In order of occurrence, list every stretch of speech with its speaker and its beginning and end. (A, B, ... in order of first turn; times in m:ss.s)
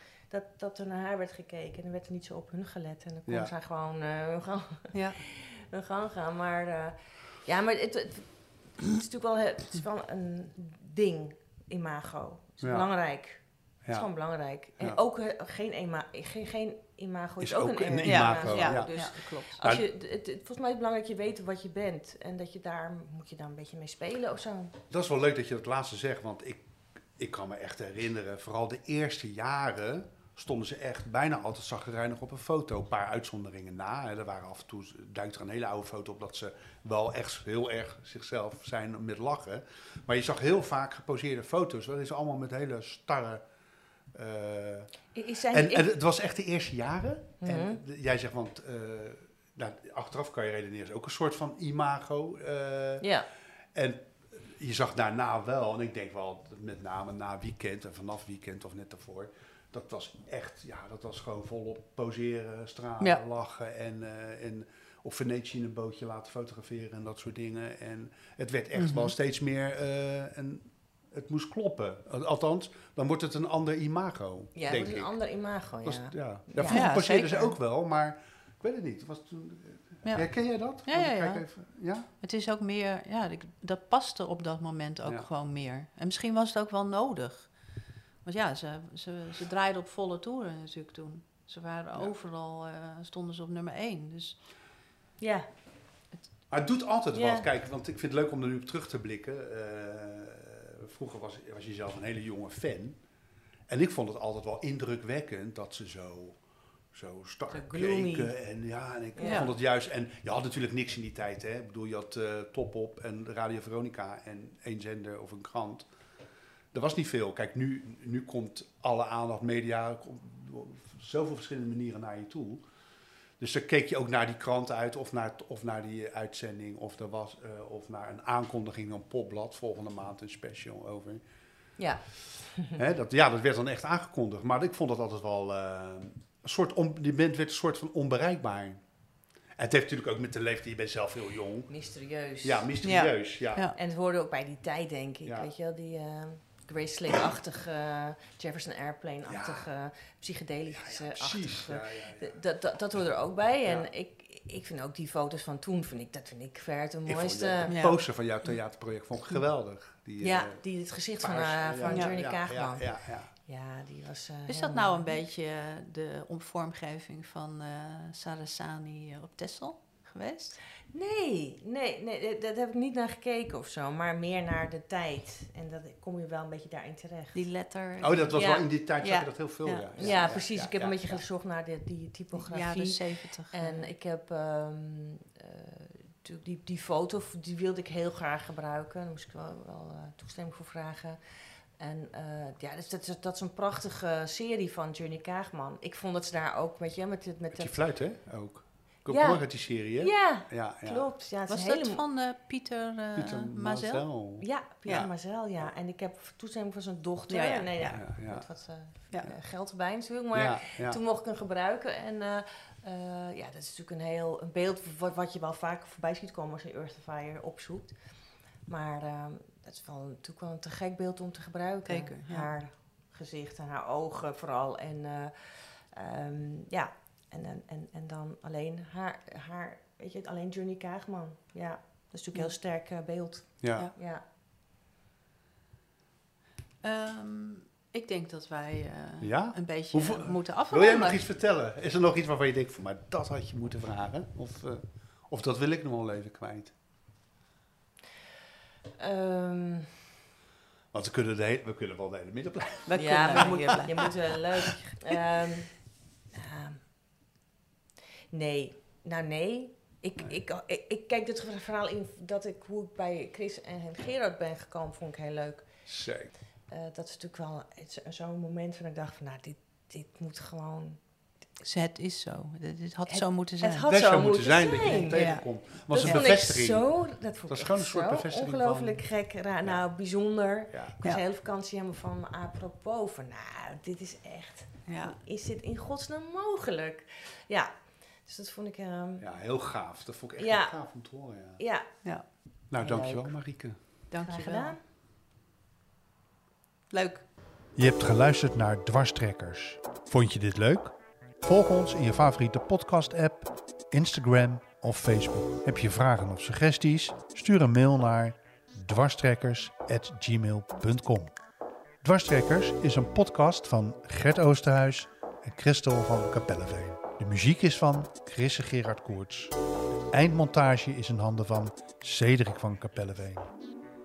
0:00.3-0:24.7 A
0:04.9-0:05.2 B
0:12.6-0:12.9 C
0:17.4-0:18.9 C
0:18.0-0:19.6 B
0:24.9-0:26.6 C
0:27.2-0:43.4 C
0:44.1-0:44.9 C
0:45.1-0:45.9 A
0:45.5-0:53.1 C
0:47.4-0:47.8 A
0:53.0-0:53.3 A
0:53.7-1:15.1 C
1:08.8-1:09.1 B
1:14.6-1:17.5 A
1:15.8-1:22.1 C
1:16.7-1:17.4 B
1:20.0-1:20.3 B
1:20.8-1:21.4 B
1:22.2-1:27.5 B
1:28.2-1:34.4 B
1:35.2-1:35.5 A
1:36.5-1:43.0 C
1:37.1-1:37.5 A
1:43.7-1:46.4 C
1:46.9-1:55.9 C
1:47.5-1:48.3 A
1:49.2-1:49.5 A
1:49.2-1:49.5 B
1:56.7-2:02.6 C
2:03.4-2:11.2 C
2:11.8-2:12.8 A
2:12.7-2:18.8 C
2:19.6-2:21.7 C
2:21.7-2:22.7 A
2:22.4-2:23.7 C
2:22.8-2:23.8 B
2:23.8-2:37.8 A
2:29.3-2:29.7 C
2:30.7-2:32.3 C
2:37.1-2:40.6 C
2:37.7-2:38.0 B
2:40.2-2:45.2 A
2:41.2-2:43.3 C
2:44.5-2:50.6 B
2:50.9-2:57.4 A
2:57.3-2:58.4 B
2:58.0-3:01.2 C
2:58.3-2:58.7 A
2:59.0-3:00.4 B
3:00.0-3:11.2 A
3:02.3-3:03.9 B
3:11.8-3:17.8 A
3:17.5-3:21.1 C
3:19.1-3:22.0 A
3:21.5-3:24.1 B
3:23.2-3:25.1 C
3:24.4-3:38.0 A
3:27.3-3:28.0 B
3:27.9-3:28.5 C
3:30.3-3:31.0 C
3:38.7-3:54.2 A
3:41.9-3:42.5 B
3:53.6-3:53.9 C
3:56.8-4:01.2 B
3:59.2-4:06.8 C
4:09.0-4:10.0 A
4:10.9-4:14.1 C
4:12.9-4:14.1 B
4:12.9-4:15.7 A
4:16.3-4:16.8 A
4:18.3-4:25.7 A
4:25.9-4:26.3 C
4:26.7-4:31.0 A
4:31.6-4:33.9 B
4:33.1-4:47.7 A
4:33.9-4:36.9 C
4:34.9-4:35.5 B
4:37.5-4:39.0 C
4:44.9-4:45.2 B
4:48.2-4:49.2 A
4:49.2-4:51.6 C
4:50.4-4:50.8 A
4:51.6-4:51.9 A
4:52.7-4:53.8 C
4:52.8-4:53.3 A
4:54.1-4:54.8 B
4:54.2-4:54.8 A
4:56.9-4:57.2 B
4:57.8-5:11.4 C
5:12.0-5:19.6 C
5:20.1-5:23.5 C